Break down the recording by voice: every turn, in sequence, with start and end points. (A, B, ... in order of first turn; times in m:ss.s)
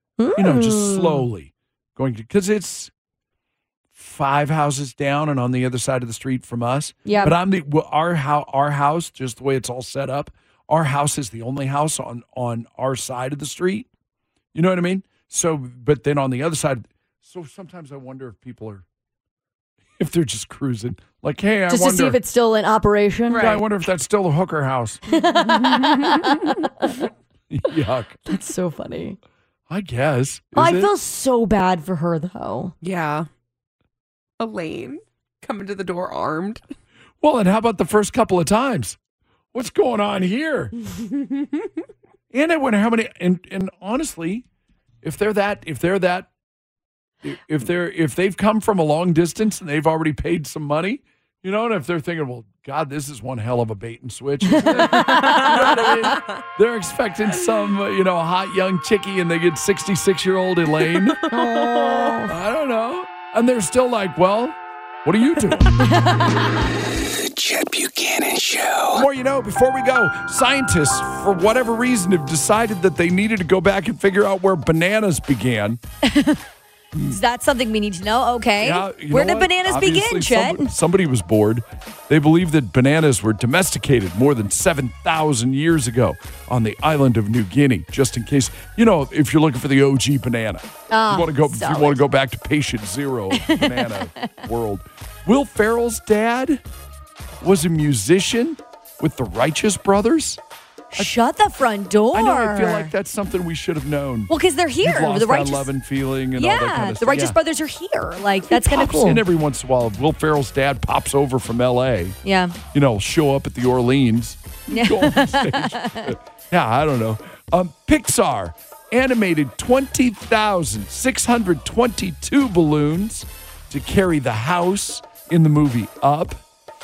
0:00.2-0:01.2 A
0:00.4-0:02.9 B
0:03.9-0:13.9 B
0:07.1-0:07.4 A
0:14.5-0:18.8 B
0:20.0-0:22.2 B
0:21.7-0:23.4 A
0:23.3-0:23.6 C
0:23.3-0:25.0 B
0:25.1-0:26.6 A
0:25.6-0:26.3 C
0:27.5-0:28.2 B
0:28.3-0:29.2 A
0:29.7-0:30.9 B
0:30.6-0:32.7 A
0:32.8-0:33.3 C
0:34.4-0:36.6 C
0:37.2-0:39.0 B
0:39.5-0:40.7 B
0:42.3-0:44.4 B
0:45.0-0:46.3 B
0:47.2-1:01.2 B
0:54.7-0:55.8 A
0:55.0-0:56.4 C
1:01.3-1:02.3 A
1:01.3-1:02.2 C
1:02.3-1:05.7 B
1:05.8-1:06.4 A
1:07.0-1:09.1 D
1:08.9-1:15.8 B
1:16.0-1:16.4 A
1:16.9-1:17.2 B
1:17.1-1:20.7 A
1:18.6-1:36.6 B
1:30.9-1:32.0 A
1:33.3-1:34.3 A
1:37.4-1:40.4 B
1:40.9-1:42.9 A
1:42.1-1:47.4 B
1:44.3-1:45.7 A
1:46.4-1:49.2 A
1:48.5-1:52.2 B
1:52.2-1:52.6 A
1:52.7-2:06.4 B
1:54.7-1:56.1 A